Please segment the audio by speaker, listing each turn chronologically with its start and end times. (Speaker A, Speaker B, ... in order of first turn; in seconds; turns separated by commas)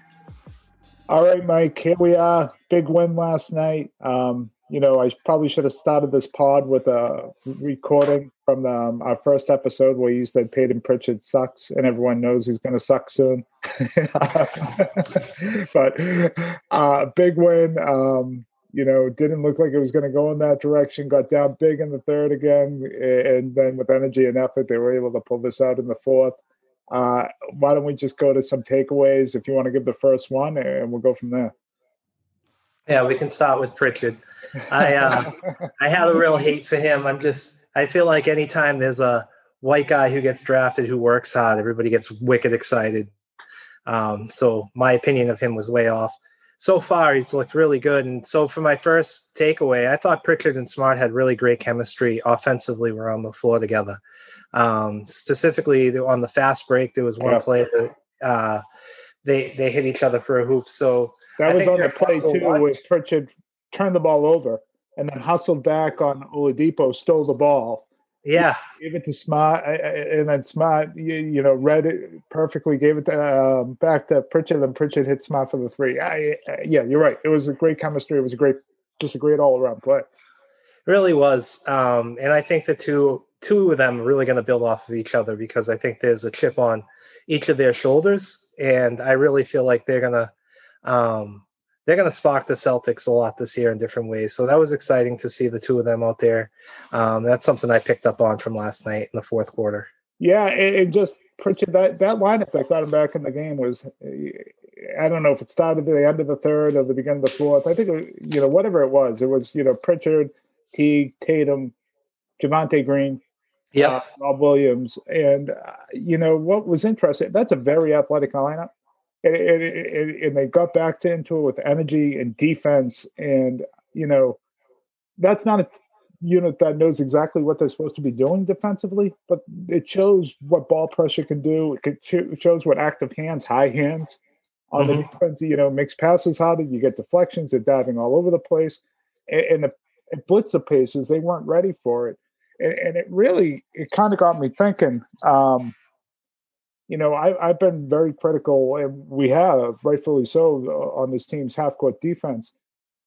Speaker A: 1.1-26.4, Speaker A: 26.9-31.5, Speaker B: 32.9-43.1, Speaker B: 43.9-54.0, Speaker B: 54.5-58.6, Speaker B: 59.2-62.8, Speaker A: 61.4-67.9, Speaker B: 68.2-68.6, Speaker A: 68.4-80.1, Speaker B: 80.9-90.3, Speaker B: 90.8-99.9, Speaker A: 100.2-111.7, Speaker A: 112.4-113.2, Speaker A: 113.8-118.7, Speaker A: 119.2-124.4, Speaker A: 125.2-134.2, Speaker A: 134.7-145.8, Speaker B: 134.8-135.1, Speaker A: 146.9-152.5